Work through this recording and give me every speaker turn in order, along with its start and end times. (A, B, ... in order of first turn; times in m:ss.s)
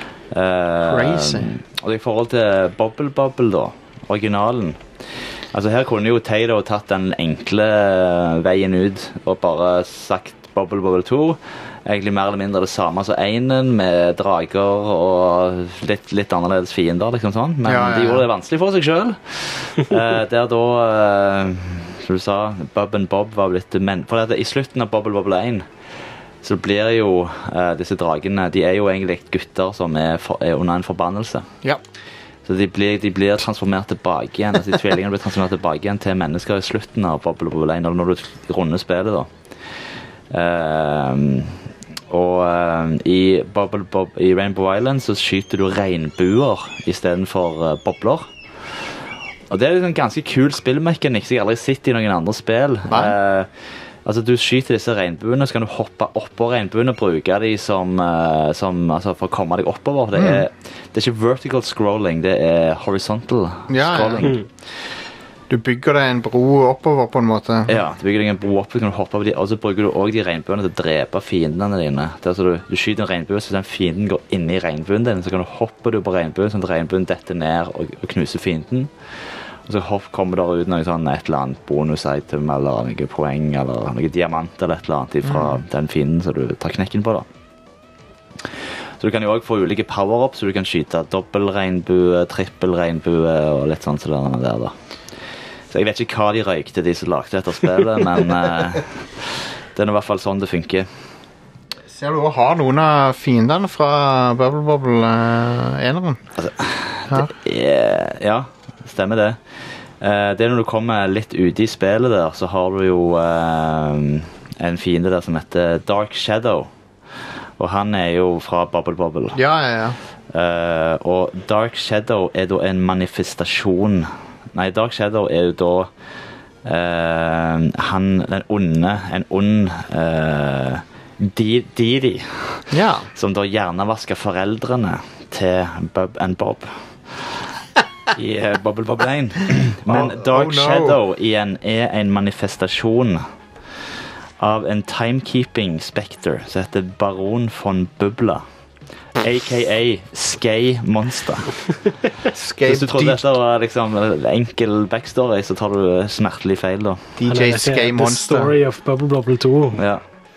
0:00.3-0:04.8 A
0:00.8-0:01.5 B
0:05.5-0:25.7 A
0:17.6-0:18.3 B
0:26.4-0:31.5 A
0:32.4-0:39.3 A
0:40.3-0:48.3 A
0:49.5-0:53.5 A
0:52.9-0:53.2 B
0:54.0-1:04.4 A
1:00.1-1:00.4 B
1:03.7-1:04.3 B
1:05.5-1:07.8 B
1:07.7-1:18.9 A
1:19.7-1:27.2 A
1:25.2-1:25.6 B
1:29.0-1:34.7 A
1:35.7-1:40.9 A
1:41.9-1:46.2 B
1:46.4-1:49.4 A
1:50.0-1:56.7 A
1:57.6-1:59.4 A
1:59.4-2:00.0 B
2:00.3-2:05.9 A
2:06.6-2:17.4 A
2:12.7-2:13.1 B
2:18.1-2:23.2 A
2:19.9-2:21.0 B
2:24.4-2:28.4 A
2:29.2-2:31.6 A
2:32.2-2:33.3 B
2:32.6-2:37.1 A
2:37.2-2:38.6 B
2:37.3-2:39.8 C
2:39.8-2:40.0 A